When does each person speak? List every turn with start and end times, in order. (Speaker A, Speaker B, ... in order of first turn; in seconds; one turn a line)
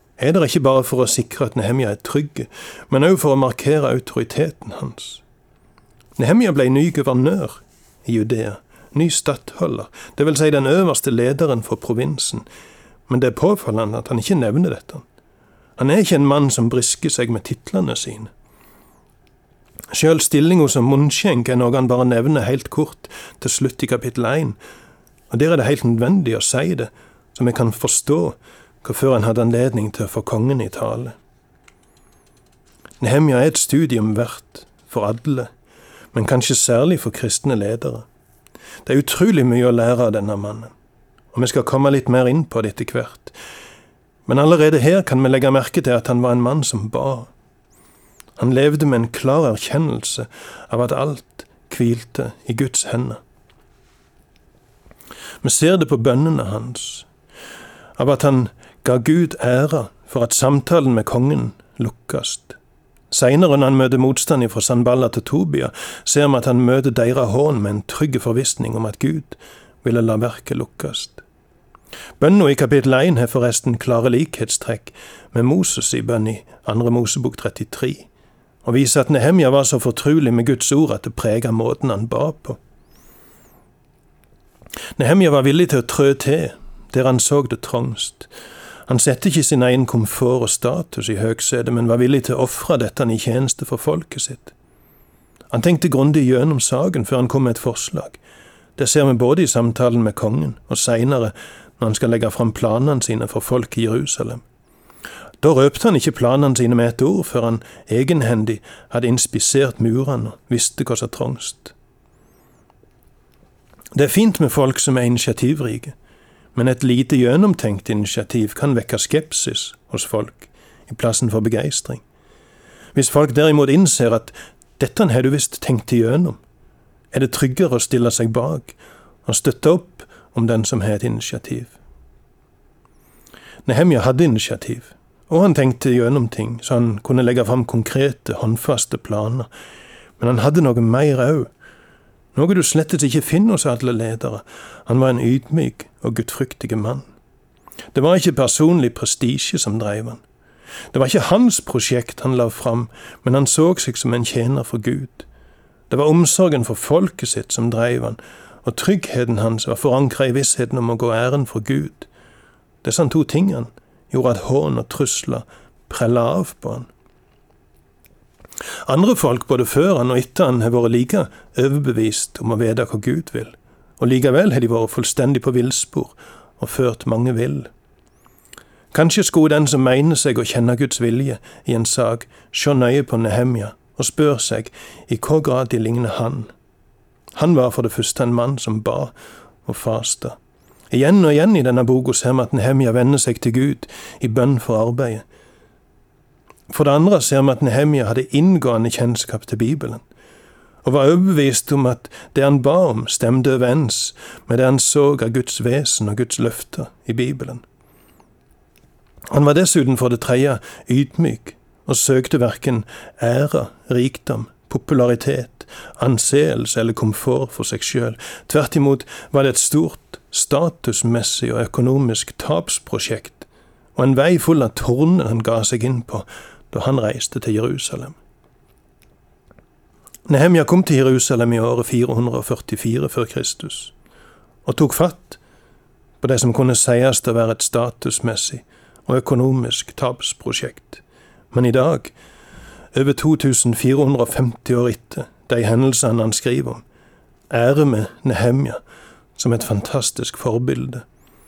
Speaker A: 0.2-5.2
Speaker A: 6.2-12.4
Speaker A: 13.1-15.0
Speaker A: 15.8-18.3
Speaker A: 19.9-24.6
Speaker A: 25.3-31.1
Speaker A: 33.0-35.5
Speaker A: 36.1-38.0
Speaker A: 38.8-40.7
Speaker A: 41.3-43.4
Speaker A: 44.3-47.3
Speaker A: 48.4-53.2
Speaker A: 55.4-57.1
Speaker A: 58.0-62.6
Speaker A: 63.1-71.2
Speaker A: 72.2-78.1
Speaker A: 78.6-82.6
Speaker A: 85.0-88.3
Speaker A: 88.9-94.5
Speaker A: 95.5-98.2
Speaker A: 98.8-104.4
Speaker A: 105.4-111.7
Speaker A: 113.9-115.9
Speaker A: 116.5-122.0
Speaker A: 122.9-126.4
Speaker A: 127.1-131.8
Speaker A: 133.7-139.5
Speaker A: 140.2-141.5
Speaker A: 142.3-147.0
Speaker A: 147.9-150.2
Speaker A: 150.9-155.3
Speaker A: 155.9-162.1
Speaker A: 162.8-166.9
Speaker A: 168.8-177.7
Speaker A: 178.9-186.5
Speaker A: 187.3-189.1
Speaker A: 189.6-190.4
Speaker A: 190.9-195.2
Speaker A: 196.7-200.0
Speaker A: 200.8-207.6
Speaker A: 209.3-228.2
Speaker A: 230.3-233.9
Speaker A: 234.6-235.4
Speaker A: 236.2-242.1
Speaker A: 242.9-246.8
Speaker A: 247.5-248.8
Speaker A: 249.4-251.0